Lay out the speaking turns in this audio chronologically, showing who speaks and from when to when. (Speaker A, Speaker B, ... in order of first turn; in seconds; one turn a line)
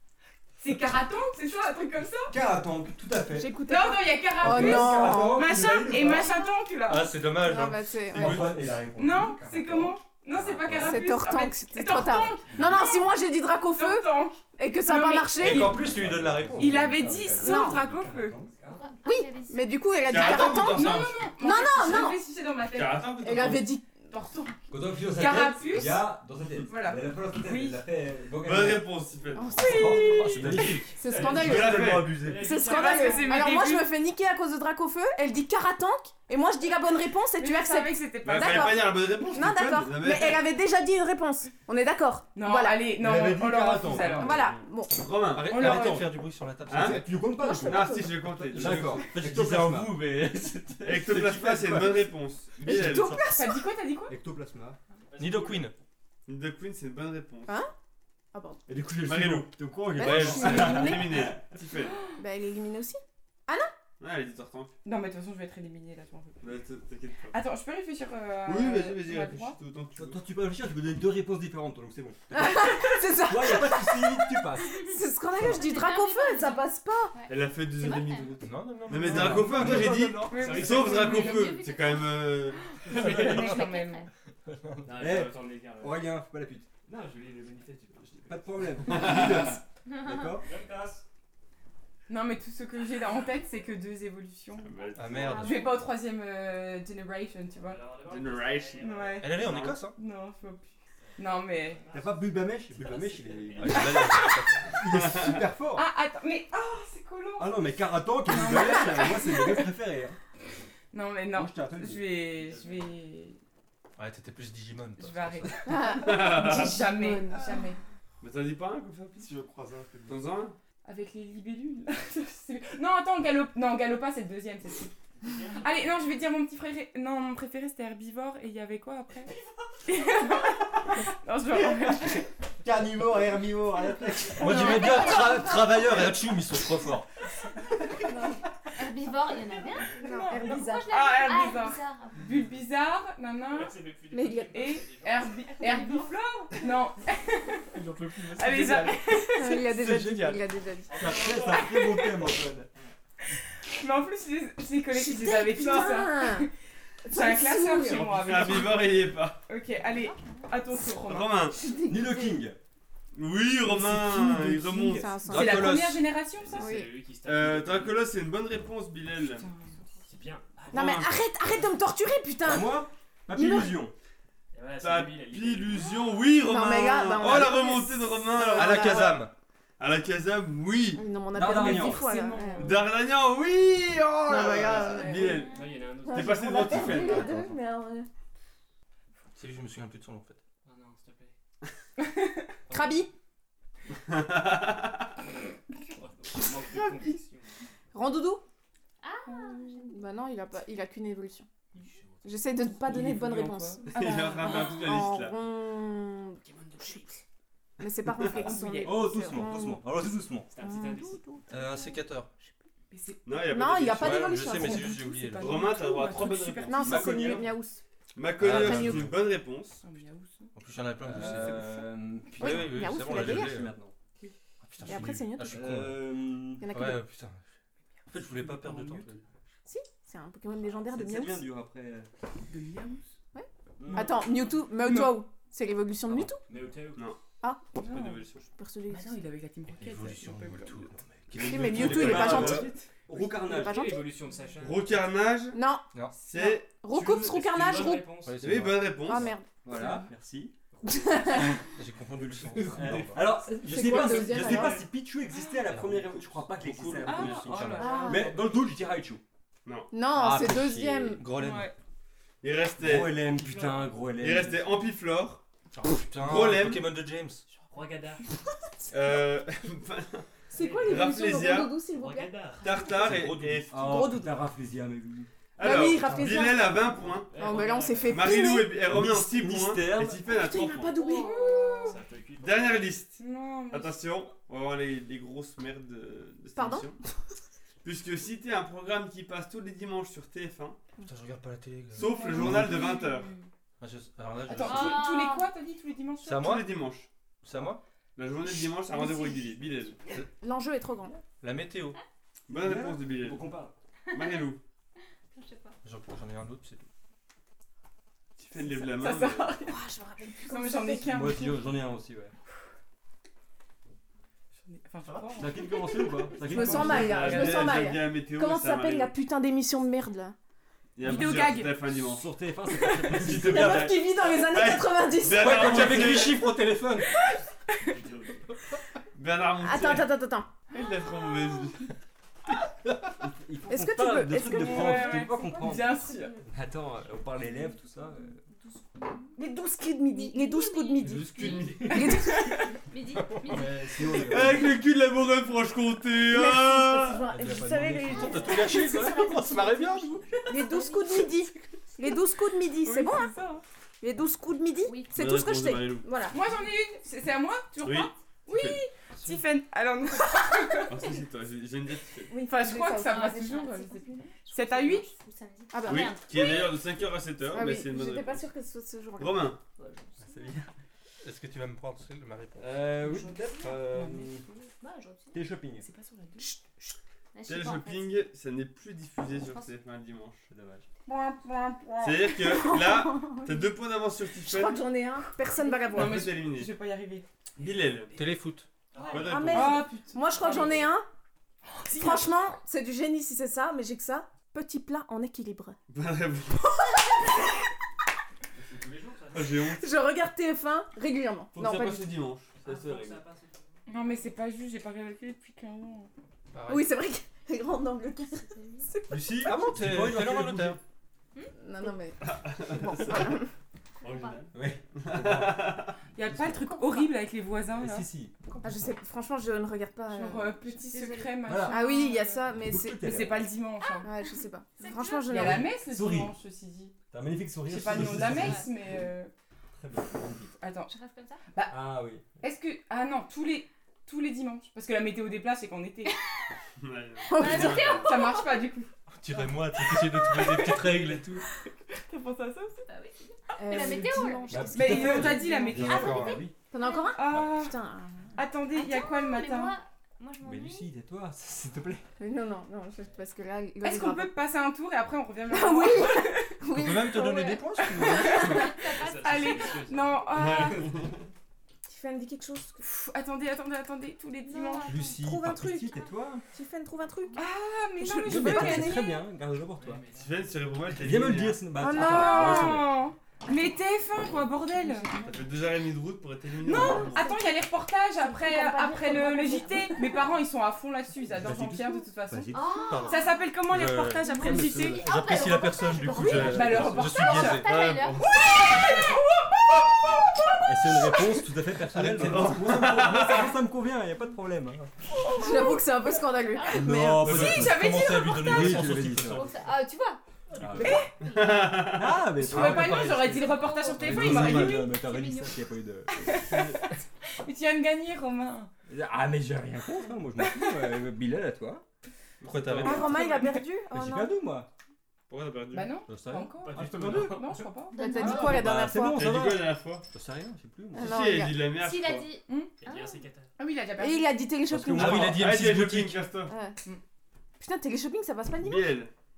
Speaker A: 0.6-2.4
Speaker B: 2.3-3.6
Speaker C: 3.3-5.5
Speaker A: 3.7-7.1
Speaker B: 4.4-6.4
Speaker D: 6.9-8.7
Speaker C: 7.4-8.5
Speaker B: 8.1-11.0
Speaker A: 8.9-13.2
Speaker C: 10.7-15.8
Speaker A: 13.7-15.7
Speaker B: 15.4-18.9
Speaker D: 15.4-17.2
Speaker A: 16.6-18.4
Speaker C: 17.4-17.8
Speaker E: 18.7-19.7
Speaker C: 19.0-22.2
Speaker F: 20.0-21.2
Speaker A: 20.2-23.1
Speaker F: 22.7-23.7
Speaker C: 23.2-23.9
Speaker A: 24.1-26.1
Speaker B: 24.7-28.9
Speaker A: 26.6-27.8
Speaker F: 28.4-32.2
Speaker C: 29.4-30.4
Speaker B: 29.5-32.5
Speaker A: 29.6-30.5
Speaker C: 30.9-31.8
Speaker G: 31.0-33.5
Speaker C: 32.3-42.9
Speaker A: 32.5-33.9
Speaker A: 37.4-38.8
Speaker F: 38.2-40.5
Speaker A: 42.3-44.4
Speaker B: 42.9-44.6
Speaker C: 44.1-45.1
Speaker F: 44.9-45.6
Speaker D: 45.3-47.1
Speaker A: 45.5-46.0
Speaker B: 45.5-46.1
Speaker F: 46.7-49.1
Speaker B: 46.7-53.2
Speaker C: 47.2-48.2
Speaker D: 48.5-50.2
Speaker F: 50.8-53.2
Speaker C: 52.6-53.6
Speaker A: 53.3-54.1
Speaker B: 54.1-54.8
Speaker G: 55.1-55.7
Speaker D: 55.1-55.7
Speaker F: 56.3-57.6
Speaker C: 57.5-57.7
Speaker C: 58.3-58.6
Speaker B: 58.7-61.4
Speaker F: 59.0-62.0
Speaker C: 59.9-61.3
Speaker C: 62.1-63.7
Speaker F: 64.0-64.7
Speaker A: 64.8-66.5
Speaker F: 66.4-67.3
Speaker A: 67.3-69.6
Speaker F: 68.4-70.2
Speaker B: 70.0-74.9
Speaker C: 72.3-77.2
Speaker E: 75.3-78.4
Speaker F: 77.3-83.4
Speaker D: 78.4-80.1
Speaker B: 79.0-80.3
Speaker G: 79.1-81.4
Speaker A: 80.2-81.6
Speaker E: 81.0-82.4
Speaker A: 82.8-84.1
Speaker B: 82.9-83.5
Speaker E: 83.1-84.1
Speaker D: 84.5-85.0
Speaker G: 84.8-86.1
Speaker B: 84.9-86.7
Speaker G: 86.8-89.5
Speaker B: 88.1-90.5
Speaker F: 88.9-89.6
Speaker E: 89.9-90.3
Speaker G: 90.4-91.0
Speaker A: 92.1-94.7
Speaker F: 94.6-95.4
Speaker G: 94.8-95.4
Speaker D: 95.0-95.6
Speaker E: 95.1-95.8
Speaker A: 95.4-97.8
Speaker G: 97.6-99.2
Speaker F: 98.0-99.8
Speaker A: 98.8-101.8
Speaker D: 99.2-99.9
Speaker G: 101.0-104.2
Speaker B: 101.9-104.0
Speaker D: 103.6-104.6
Speaker A: 103.6-104.4
Speaker B: 104.7-105.9
Speaker F: 104.9-105.4
Speaker A: 105.7-107.7
Speaker B: 107.4-110.2
Speaker A: 108.2-109.7
Speaker A: 110.9-113.4
Speaker B: 111.3-112.1
Speaker G: 112.3-112.9
Speaker D: 114.0-115.5
Speaker A: 115.0-117.8
Speaker C: 115.7-117.6
Speaker F: 115.9-116.8
Speaker F: 118.2-119.3
Speaker B: 119.2-120.2
Speaker F: 120.1-120.6
Speaker A: 120.8-124.9
Speaker G: 125.2-126.0
Speaker A: 125.6-129.3
Speaker A: 129.8-132.2
Speaker B: 131.5-134.8
Speaker D: 134.4-137.1
Speaker E: 134.4-136.2
Speaker E: 138.7-142.3
Speaker C: 140.0-140.9
Speaker A: 140.0-143.8
Speaker G: 143.5-145.4
Speaker C: 144.1-144.8
Speaker A: 144.3-147.8
Speaker E: 145.6-146.1
Speaker G: 147.7-149.2
Speaker A: 148.3-149.7
Speaker C: 149.3-151.1
Speaker B: 149.7-152.7
Speaker G: 150.9-152.0
Speaker A: 151.1-152.2
Speaker A: 153.7-156.5
Speaker C: 154.9-156.5
Speaker C: 157.0-158.3
Speaker A: 157.1-161.4
Speaker F: 157.9-159.4
Speaker E: 159.8-160.5
Speaker F: 161.0-161.6
Speaker C: 161.5-162.4
Speaker B: 161.8-162.6
Speaker F: 163.1-165.2
Speaker B: 163.7-165.0
Speaker C: 164.7-165.7
Speaker D: 165.2-166.0
Speaker A: 165.3-166.6
Speaker G: 166.3-168.1
Speaker C: 166.5-166.9
Speaker F: 167.2-169.5
Speaker A: 169.2-169.8
Speaker G: 170.1-171.7
Speaker C: 170.7-173.8
Speaker B: 172.4-173.9
Speaker G: 174.5-176.1
Speaker F: 174.8-181.0
Speaker C: 176.4-179.2
Speaker D: 178.4-179.3
Speaker C: 180.9-182.8
Speaker B: 181.3-182.3
Speaker A: 181.5-182.8
Speaker F: 182.6-185.5
Speaker C: 184.3-185.4
Speaker A: 184.9-185.3
Speaker G: 185.0-187.1
Speaker E: 185.2-185.7
Speaker C: 186.0-188.1
Speaker F: 186.1-187.3
Speaker D: 187.0-187.5
Speaker D: 189.3-190.4
Speaker G: 190.6-191.3
Speaker A: 192.0-192.4
Speaker G: 192.7-193.1
Speaker C: 192.7-193.1
Speaker F: 194.1-194.9
Speaker G: 195.9-197.5
Speaker C: 197.9-198.4
Speaker E: 199.0-200.0
Speaker A: 199.2-199.8
Speaker C: 199.9-201.5
Speaker G: 201.7-202.6
Speaker C: 202.2-207.0
Speaker A: 202.8-204.8
Speaker F: 203.9-205.3
Speaker G: 206.4-207.2
Speaker C: 207.8-209.9
Speaker A: 208.3-209.1
Speaker B: 208.8-210.5
Speaker G: 210.5-211.3
Speaker C: 210.5-211.4
Speaker D: 211.5-212.3
Speaker A: 212.9-213.5
Speaker F: 213.2-214.4
Speaker C: 213.4-215.1
Speaker D: 214.0-215.7
Speaker A: 214.3-217.5
Speaker F: 215.4-217.5
Speaker C: 216.6-217.8
Speaker F: 218.2-219.8
Speaker D: 218.4-219.2
Speaker C: 218.4-219.1
Speaker A: 219.8-220.5
Speaker D: 220.5-221.8
Speaker B: 221.0-223.9
Speaker C: 222.4-223.6
Speaker D: 222.4-223.7
Speaker D: 224.6-226.1
Speaker B: 224.8-226.7
Speaker C: 224.8-225.6
Speaker C: 226.6-227.0
Speaker D: 226.7-227.4
Speaker D: 228.1-229.2
Speaker A: 228.1-229.1
Speaker C: 229.7-231.5
Speaker B: 230.8-232.1
Speaker A: 232.5-233.1
Speaker C: 233.3-236.4
Speaker B: 233.8-234.2
Speaker G: 233.8-234.4
Speaker A: 233.9-234.2
Speaker A: 234.8-235.2
Speaker G: 236.5-237.1
Speaker C: 237.4-237.8
Speaker A: 237.8-238.2
Speaker F: 237.8-238.5
Speaker C: 238.6-239.1
Speaker A: 238.9-240.9
Speaker D: 239.8-242.5
Speaker B: 241.3-243.9
Speaker C: 241.4-244.1
Speaker F: 241.7-242.7
Speaker G: 243.4-245.1
Speaker F: 244.6-245.6
Speaker C: 245.5-248.2
Speaker F: 246.2-246.7
Speaker G: 246.9-248.7
Speaker D: 248.2-249.2
Speaker F: 248.4-249.3
Speaker C: 249.0-249.5
Speaker B: 249.6-250.6
Speaker A: 249.7-250.1
Speaker C: 250.8-251.6
Speaker G: 250.8-251.5
Speaker D: 251.4-253.2
Speaker B: 252.5-259.2
Speaker G: 252.6-253.3
Speaker C: 253.4-254.9
Speaker G: 254.3-254.8
Speaker D: 255.7-258.0
Speaker A: 257.0-258.4
Speaker C: 257.8-258.4
Speaker F: 259.6-259.9
Speaker C: 259.9-261.2
Speaker D: 260.1-261.7
Speaker B: 260.1-261.2
Speaker A: 261.3-261.7
Speaker F: 262.4-263.2
Speaker B: 262.8-264.6
Speaker G: 263.2-264.2
Speaker F: 264.2-265.4
Speaker D: 265.8-267.4
Speaker F: 266.2-266.8
Speaker G: 267.6-268.2
Speaker F: 268.9-270.2
Speaker C: 270.5-272.3
Speaker G: 270.5-271.2
Speaker F: 270.8-271.8
Speaker G: 271.8-273.3
Speaker F: 272.6-274.1
Speaker D: 272.9-273.7
Speaker B: 273.7-275.3
Speaker C: 273.8-274.4
Speaker F: 275.6-277.4
Speaker C: 275.6-278.8
Speaker B: 275.9-276.5
Speaker G: 277.0-278.4
Speaker F: 278.0-280.9
Speaker B: 278.4-280.3
Speaker C: 280.3-282.0
Speaker E: 280.9-281.9
Speaker A: 281.1-281.9
Speaker G: 281.9-283.0
Speaker F: 282.4-287.0
Speaker A: 283.2-284.0
Speaker C: 286.6-286.9
Speaker F: 287.8-290.8
Speaker D: 291.0-292.9
Speaker F: 291.9-293.3
Speaker A: 291.9-293.5
Speaker D: 293.8-295.0
Speaker A: 294.4-296.6
Speaker E: 294.6-295.5
Speaker D: 296.2-296.7
Speaker F: 296.3-297.1
Speaker D: 297.4-297.8
Speaker F: 298.1-300.0
Speaker C: 298.6-299.5
Speaker C: 300.4-301.2
Speaker D: 301.4-302.0
Speaker F: 302.5-303.4
Speaker B: 302.5-303.7
Speaker E: 304.1-304.5
Speaker F: 304.1-304.6
Speaker E: 305.3-305.8
Speaker D: 305.8-306.9
Speaker F: 308.4-309.5
Speaker A: 308.9-309.8
Speaker C: 309.6-311.3
Speaker A: 310.5-311.6
Speaker B: 311.0-312.3
Speaker A: 314.6-317.4
Speaker B: 315.1-317.6
Speaker C: 316.4-320.4
Speaker F: 316.8-319.1
Speaker F: 321.0-322.3
Speaker A: 321.0-321.8
Speaker B: 321.8-324.0
Speaker A: 322.7-323.2
Speaker F: 323.1-326.4
Speaker C: 323.3-326.1
Speaker D: 325.4-327.1
Speaker B: 325.5-326.3
Speaker A: 327.2-327.9
Speaker G: 328.0-328.3
Speaker F: 329.1-330.1
Speaker C: 329.6-330.5
Speaker F: 330.7-331.9
Speaker A: 330.8-331.4
Speaker B: 333.2-338.4
Speaker C: 333.7-335.3
Speaker A: 334.4-336.4
Speaker E: 338.5-339.4
Speaker C: 339.4-342.7
Speaker E: 340.1-342.1
Speaker F: 341.0-342.1
Speaker G: 341.5-341.9
Speaker A: 341.9-342.6
Speaker E: 342.6-344.3
Speaker B: 343.4-344.8
Speaker F: 344.2-347.2
Speaker C: 346.2-349.1
Speaker B: 347.2-348.8
Speaker D: 348.1-350.2
Speaker E: 349.0-350.0
Speaker C: 350.5-353.3
Speaker E: 350.6-351.2
Speaker A: 352.8-353.6
Speaker C: 354.0-356.4
Speaker E: 354.8-355.1
Speaker F: 355.1-356.1
Speaker A: 356.3-361.0
Speaker F: 357.8-358.8
Speaker F: 360.9-362.3
Speaker C: 362.3-363.6
Speaker A: 362.4-365.1
Speaker E: 363.0-366.8
Speaker C: 365.7-366.2
Speaker F: 365.9-368.5
Speaker C: 367.5-369.5
Speaker F: 369.2-369.6
Speaker E: 369.8-370.6
Speaker B: 370.2-370.7
Speaker D: 371.2-372.7
Speaker B: 372.6-374.5
Speaker A: 373.0-374.6
Speaker E: 374.8-375.4
Speaker B: 375.3-375.9
Speaker A: 375.8-376.5
Speaker C: 376.4-377.0
Speaker E: 377.3-378.2
Speaker F: 377.5-380.4
Speaker E: 379.3-379.8
Speaker B: 380.5-380.9
Speaker C: 381.1-383.7
Speaker F: 382.0-384.8
Speaker C: 384.4-386.4
Speaker A: 385.7-387.2
Speaker F: 385.9-386.7
Speaker F: 387.6-388.1
Speaker D: 388.1-388.7
Speaker G: 388.9-389.5
Speaker F: 389.0-389.9
Speaker C: 389.1-391.1
Speaker A: 389.5-390.8
Speaker A: 391.8-392.3
Speaker C: 391.9-395.8
Speaker F: 395.9-396.6
Speaker C: 396.6-397.4
Speaker G: 398.6-399.7
Speaker F: 399.3-399.8
Speaker C: 399.6-402.1
Speaker F: 401.5-403.2
Speaker G: 402.6-404.2
Speaker A: 403.9-406.1
Speaker D: 406.5-406.9
Speaker C: 406.7-409.2
Speaker E: 408.4-408.9
Speaker B: 409.1-410.8
Speaker D: 409.3-410.8
Speaker C: 411.6-413.5
Speaker F: 412.2-413.4
Speaker E: 414.0-414.5
Speaker F: 414.0-415.9
Speaker B: 414.5-416.7
Speaker A: 416.1-418.1
Speaker B: 417.7-418.4
Speaker C: 418.6-420.6
Speaker A: 420.1-424.1
Speaker E: 420.7-422.1
Speaker B: 421.4-421.8
Speaker C: 421.7-423.2
Speaker B: 422.5-423.5
Speaker E: 423.8-425.4
Speaker C: 424.0-425.7
Speaker A: 425.3-426.9
Speaker B: 425.4-426.3
Speaker B: 427.1-429.1
Speaker A: 427.6-429.3
Speaker E: 427.9-428.7
Speaker B: 429.7-430.5
Speaker A: 430.6-430.9
Speaker E: 430.9-431.4
Speaker A: 431.5-431.8
Speaker B: 431.7-432.3
Speaker A: 432.3-436.1
Speaker E: 436.0-436.5
Speaker F: 436.8-438.1
Speaker E: 437.2-438.7
Speaker C: 437.3-438.1
Speaker A: 437.9-438.9
Speaker D: 439.1-441.4
Speaker A: 439.7-441.0
Speaker A: 441.9-442.9
Speaker E: 442.9-447.2
Speaker C: 443.6-445.6
Speaker B: 444.5-446.5
Speaker A: 444.7-446.2
Speaker D: 445.7-446.5
Speaker C: 446.6-448.4
Speaker A: 447.1-447.8
Speaker A: 448.3-449.8
Speaker E: 448.7-450.9
Speaker B: 450.4-452.1
Speaker C: 452.2-454.3
Speaker A: 453.8-456.6
Speaker C: 455.5-458.7
Speaker D: 456.7-458.5
Speaker A: 457.8-460.8
Speaker E: 458.2-459.8
Speaker G: 458.8-461.1
Speaker F: 460.3-461.1
Speaker C: 461.9-462.8
Speaker A: 462.8-464.9
Speaker E: 464.5-465.2
Speaker B: 464.9-466.4
Speaker C: 464.9-467.4
Speaker A: 467.4-469.2
Speaker C: 468.0-469.2
Speaker B: 468.2-470.0
Speaker G: 469.7-470.5
Speaker F: 470.1-471.6
Speaker B: 470.9-473.0
Speaker C: 471.8-472.9
Speaker A: 471.8-475.1
Speaker C: 474.8-475.4
Speaker F: 475.2-477.3
Speaker A: 476.6-485.0
Speaker C: 476.7-477.5
Speaker C: 478.2-480.1
Speaker B: 481.2-483.1
Speaker E: 482.5-483.4
Speaker D: 483.7-487.7
Speaker E: 484.2-488.9
Speaker B: 484.4-485.1
Speaker A: 486.1-487.6
Speaker B: 486.4-487.0
Speaker F: 487.4-488.8
Speaker A: 488.2-489.8
Speaker B: 490.6-494.9
Speaker D: 491.9-493.1
Speaker F: 492.1-493.6
Speaker A: 495.2-495.8
Speaker E: 495.3-496.9
Speaker C: 495.3-497.4
Speaker B: 496.7-499.5
Speaker F: 497.2-497.5
Speaker D: 497.2-499.5
Speaker A: 497.3-498.9
Speaker E: 499.3-500.2
Speaker B: 500.6-501.1
Speaker C: 500.8-501.1
Speaker A: 500.8-501.1
Speaker E: 501.0-501.9
Speaker F: 501.2-502.2
Speaker B: 501.8-503.4
Speaker A: 502.4-504.9
Speaker D: 502.5-503.4
Speaker E: 503.4-505.6
Speaker B: 504.0-506.8
Speaker D: 504.0-504.8
Speaker A: 506.1-508.7
Speaker B: 508.9-511.8
Speaker A: 510.4-510.9
Speaker F: 512.4-513.1
Speaker D: 512.4-513.2
Speaker B: 512.8-513.2
Speaker C: 512.8-514.4
Speaker A: 513.1-513.6
Speaker B: 513.8-514.7
Speaker F: 515.3-516.0
Speaker A: 515.7-518.6
Speaker B: 516.1-517.6
Speaker G: 516.6-517.6
Speaker E: 517.9-518.7
Speaker C: 518.0-519.2
Speaker B: 518.2-521.4
Speaker F: 519.1-520.0
Speaker C: 520.9-521.7
Speaker F: 521.0-522.3
Speaker E: 521.7-523.2
Speaker G: 522.8-523.5
Speaker A: 523.6-524.3
Speaker C: 524.0-525.4
Speaker B: 524.7-525.5
Speaker D: 524.9-526.2
Speaker F: 525.0-526.5
Speaker C: 526.5-526.8
Speaker C: 527.6-528.9
Speaker F: 528.6-529.1